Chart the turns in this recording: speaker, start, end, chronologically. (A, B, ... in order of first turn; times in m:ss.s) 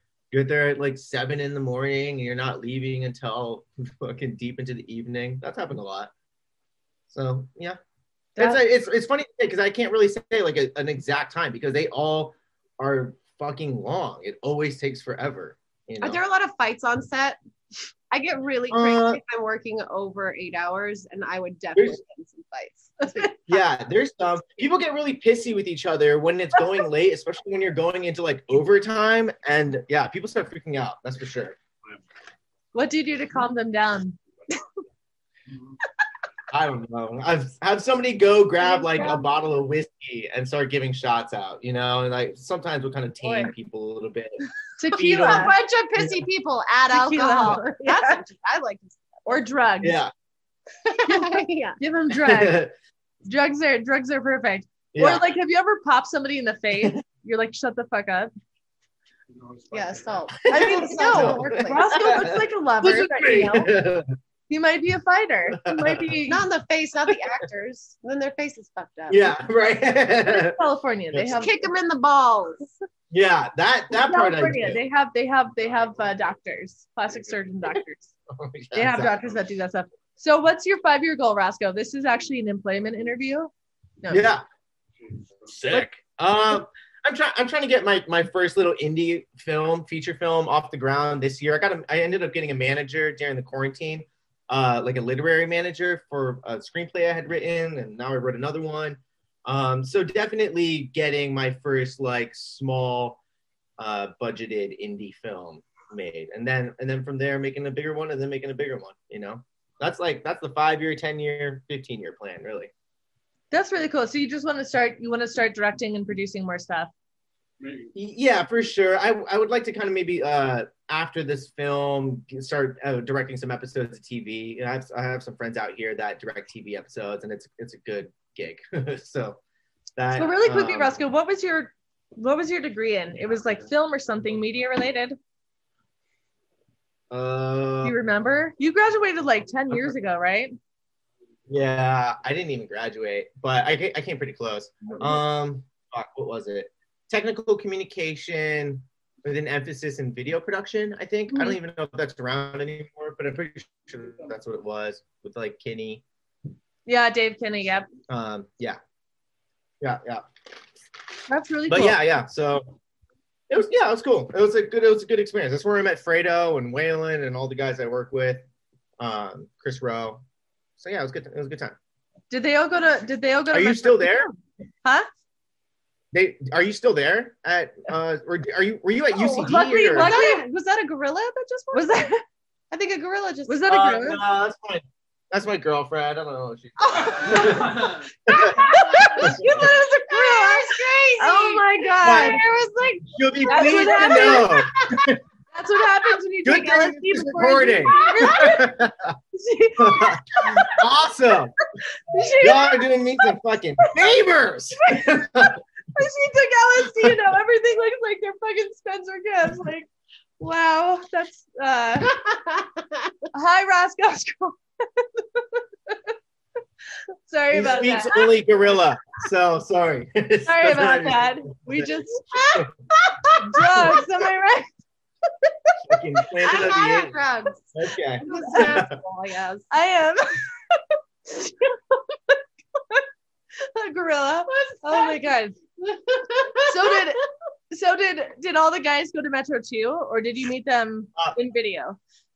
0:00.3-0:06.1 A
0:07.1-0:07.8 A
0:08.4-0:08.6 B
0:08.4-0:16.2 A
0:16.0-0:17.4 C
0:18.1-0:23.6 C
0:18.7-0:19.2 A
0:23.5-0:31.6 A
0:32.7-0:34.2 B
0:36.5-0:46.2 A
0:38.7-0:39.2 B
0:43.2-0:43.5 C
0:44.8-0:45.5 B
0:45.1-0:49.4 C
0:46.9-0:48.2 B
0:49.2-0:50.0 B
0:49.8-0:50.1 A
0:50.9-0:51.8 C
0:51.0-0:52.6 B
0:52.1-0:52.7 A
0:53.2-0:58.3 B
0:54.9-0:55.2 A
0:59.7-1:02.0 C
1:00.5-1:04.0 A
1:00.5-1:03.7 B
1:04.5-1:06.4 B
1:05.5-1:06.1 A
1:06.3-1:09.4 C
1:09.1-1:10.6 A
1:10.2-1:11.6 B
1:11.1-1:11.4 A
1:11.3-1:12.7 C
1:13.1-1:14.8 A
1:13.9-1:18.1 B
1:18.3-1:19.4 A
1:18.7-1:24.3 B
1:24.1-1:24.4 A
1:25.4-1:43.2 A
1:43.8-1:52.7 A
1:53.5-1:56.9 B
1:57.9-2:09.4 A
2:10.0-2:11.0 A
2:10.1-2:15.2 B
2:17.1-2:17.9 A
2:17.8-2:20.5 B
2:21.5-2:36.0 A
2:31.3-2:31.6 B
2:36.8-2:37.9 B
2:38.1-2:38.8 A
2:39.8-2:40.2 A
2:41.3-2:42.0 B
2:41.7-2:42.7 A
2:43.5-2:48.4 A
2:49.0-2:50.2 A
2:50.8-2:51.8 A
2:52.3-2:54.3 B
2:53.5-2:54.3 A
2:56.1-3:00.1 A
2:59.3-3:00.4 B
3:00.0-3:02.0 C
3:01.7-3:02.2 B
3:02.7-3:03.6 C
3:03.5-3:04.2 B
3:03.7-3:08.5 A
3:06.8-3:09.3 C
3:08.3-3:12.4 B
3:09.2-3:09.7 A
3:10.1-3:15.0 C
3:12.0-3:12.4 A
3:13.1-3:15.2 A
3:13.5-3:14.5 B
3:15.5-3:18.8 B
3:16.4-3:19.1 A
3:17.8-3:18.6 C
3:19.3-3:20.8 B
3:19.8-3:21.5 A
3:22.1-3:23.3 B
3:22.4-3:25.6 A
3:23.8-3:24.1 B
3:24.9-3:32.2 B
3:32.2-3:32.7 C
3:33.3-3:36.0 B
3:37.2-3:38.4 B
3:37.5-3:41.8 A
3:40.4-3:42.3 B
3:42.3-3:43.4 C
3:43.4-3:44.7 B
3:45.8-3:47.2 A
3:46.4-3:49.7 C
3:47.7-3:48.9 A
3:48.2-3:48.8 B
3:49.7-3:52.4 B
3:53.6-3:55.6 B
3:54.5-3:55.2 C
3:55.8-3:57.0 C
3:56.6-4:02.0 B